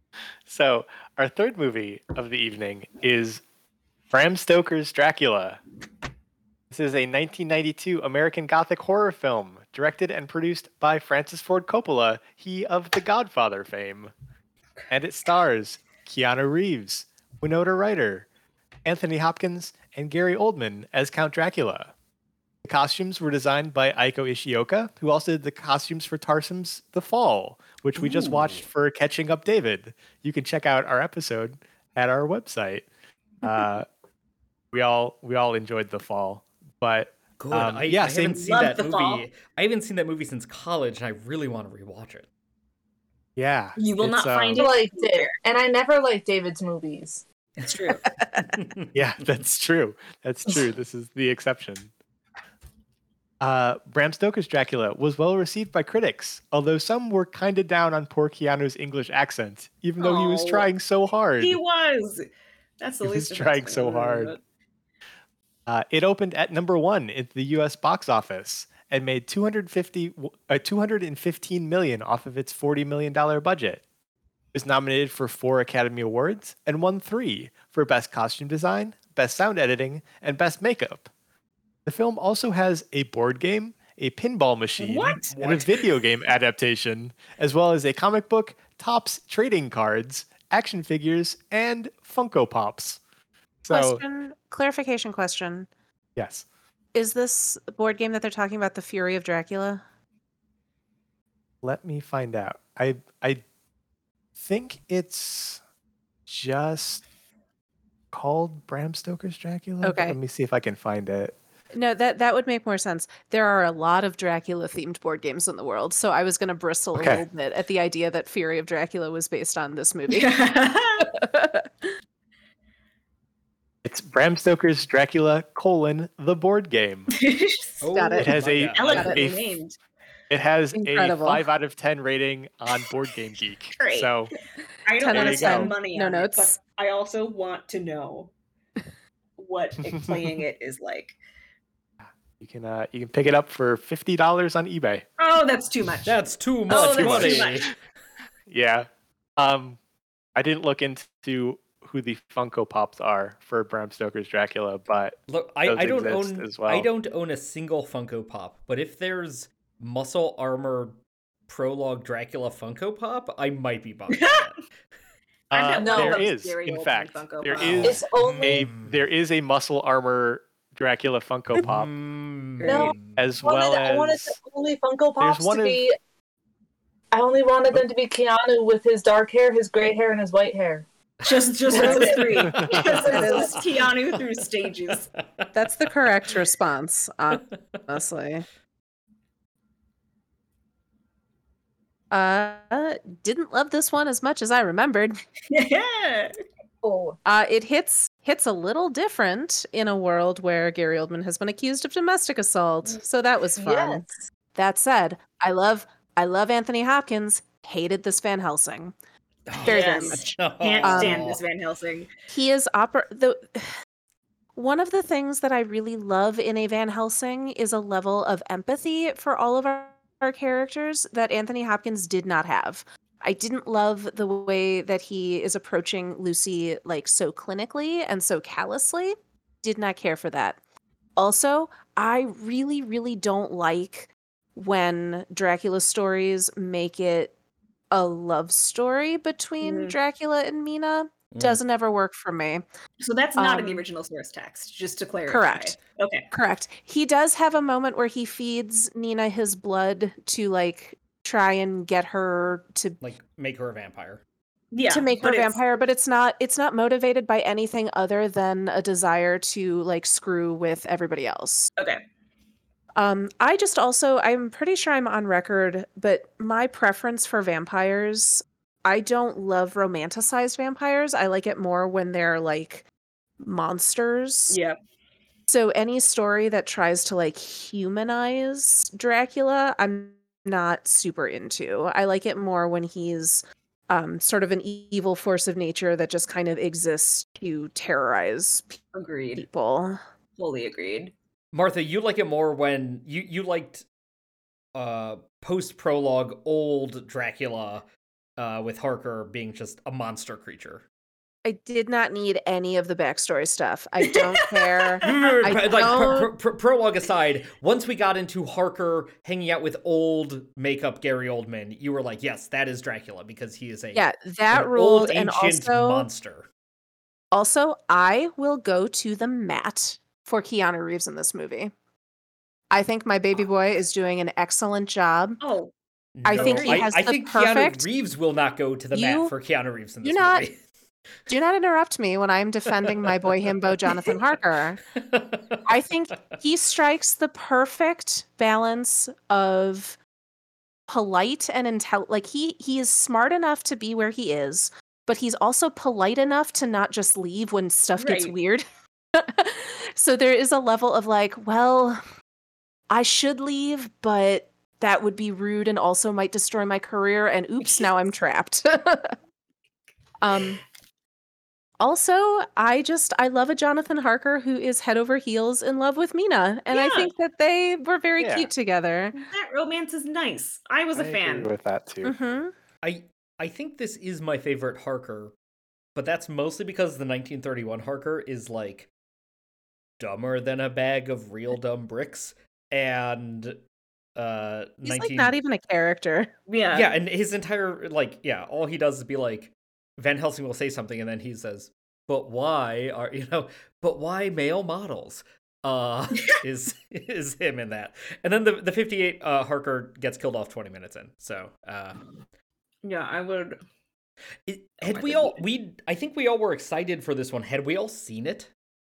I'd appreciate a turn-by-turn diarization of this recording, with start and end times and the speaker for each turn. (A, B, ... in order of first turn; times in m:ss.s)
0:00.5-0:03.4 A
0:04.1-0:05.6 A
0:06.7-0:14.1 A
0:14.9-0:18.3 A
0:18.8-0:21.9 A
0:22.6-0:32.8 A
0:28.0-0:28.6 B
0:33.4-0:33.8 A
0:34.7-0:38.5 A
0:37.4-0:42.2 B
0:38.3-0:39.2 C
0:43.4-0:44.6 A
0:43.8-0:45.4 C
0:44.6-0:47.7 D
0:47.6-0:48.0 C
0:48.1-0:48.5 E
0:48.5-0:48.8 B
0:48.9-0:51.9 A
0:53.4-1:01.6 A
1:00.0-1:00.7 C
1:01.4-1:02.3 C
1:02.8-1:04.4 C
1:03.0-1:04.3 A
1:05.6-1:13.8 A
1:14.5-1:21.1 A
1:21.8-1:33.0 A
1:24.8-1:25.3 C
1:25.3-1:25.8 B
1:33.6-1:34.0 A
1:33.7-1:35.7 E
1:36.2-1:36.4 A
1:36.9-1:39.8 E
1:41.6-1:43.4 A
1:44.4-1:45.6 A
1:46.2-1:47.0 A
1:48.1-1:51.4 A
1:49.8-1:50.2 E
1:51.7-2:00.3 E
1:56.9-1:57.2 A
2:00.1-2:01.1 C
2:01.0-2:01.9 E
2:03.8-2:07.1 A
2:07.1-2:07.8 C
2:07.8-2:09.2 B
2:07.9-2:09.2 E
2:08.2-2:09.6 A
2:08.8-2:09.8 C
2:10.3-2:14.3 A
2:10.7-2:11.4 E
2:13.8-2:14.1 C
2:14.8-2:18.3 C
2:15.0-2:16.6 E
2:15.1-2:15.7 A
2:19.4-2:21.2 C
2:22.0-2:25.0 A
2:25.2-2:26.2 C
2:26.0-2:27.7 B
2:26.7-2:27.7 C
2:26.9-2:27.7 A
2:28.5-2:29.8 A
2:30.3-2:35.1 A
2:35.3-2:44.6 B
2:35.6-2:36.9 A
2:44.1-2:44.5 C
2:45.5-2:51.9 A
2:45.5-2:47.9 C
2:45.8-2:46.3 D
2:47.6-2:49.0 B
2:47.8-2:48.6 D
2:51.6-2:53.2 B
2:52.6-2:52.9 C
2:52.6-2:55.9 D
2:53.2-2:54.4 A
2:55.2-2:55.8 A
2:57.1-3:00.9 D
3:01.2-3:05.1 C
3:01.7-3:06.0 B
3:01.7-3:03.6 D
3:03.1-3:03.5 E
3:05.5-3:08.4 E
3:12.1-3:15.2 E
3:15.5-3:16.4 C
3:16.8-3:17.2 D
3:17.2-3:28.9 E
3:23.6-3:24.1 D
3:29.5-3:31.4 B
3:29.6-3:30.2 D
3:29.6-3:30.2 E
3:29.7-3:32.1 C
3:30.8-3:31.3 E
3:32.3-3:33.8 E
3:34.6-3:50.6 E
3:51.2-3:57.3 E
3:57.9-4:02.6 E
3:59.6-3:59.9 C
4:01.3-4:01.6 B
4:03.0-4:06.3 C
4:03.4-4:03.8 E
4:05.3-4:05.8 E
4:06.3-4:13.0 E
4:13.0-4:14.2 B
4:14.7-4:15.6 C
4:14.9-4:21.7 E
4:21.8-4:22.0 C
4:23.0-4:32.8 E
4:33.4-4:34.6 E
4:34.5-4:34.8 C
4:35.5-4:48.8 E
4:48.9-4:49.4 C
4:49.4-4:50.0 E
4:50.4-4:51.1 C
4:51.5-4:53.8 B
4:54.7-4:57.8 B
4:58.4-5:00.8 B
5:01.4-5:06.3 E
5:04.0-5:05.4 C
5:05.0-5:16.5 B
5:13.9-5:16.1 E
5:17.3-5:21.7 E
5:22.7-5:25.4 E
5:25.4-5:25.7 C
5:26.2-5:30.6 B
5:26.2-5:27.8 E
5:26.3-5:26.9 C
5:28.9-5:29.3 E
5:30.0-5:30.4 E
5:31.3-5:34.8 E
5:35.0-5:35.6 B
5:35.6-5:40.0 E
5:40.9-5:52.0 E
5:48.0-5:48.3 C
5:52.9-5:59.2 E
5:57.6-5:57.9 C
6:00.2-6:00.6 E
6:01.8-6:09.2 E
6:06.7-6:07.1 C
6:08.2-6:08.5 A
6:09.2-6:11.5 C
6:10.9-6:12.1 A
6:12.0-6:12.5 E
6:12.8-6:15.3 B
6:15.9-6:18.9 B
6:20.0-6:23.6 B
6:24.2-6:25.3 B
6:24.8-6:26.3 E
6:26.5-6:26.9 C
6:26.7-6:42.0 B
6:42.8-6:43.6 C
6:44.4-6:48.5 B
6:44.8-6:45.4 C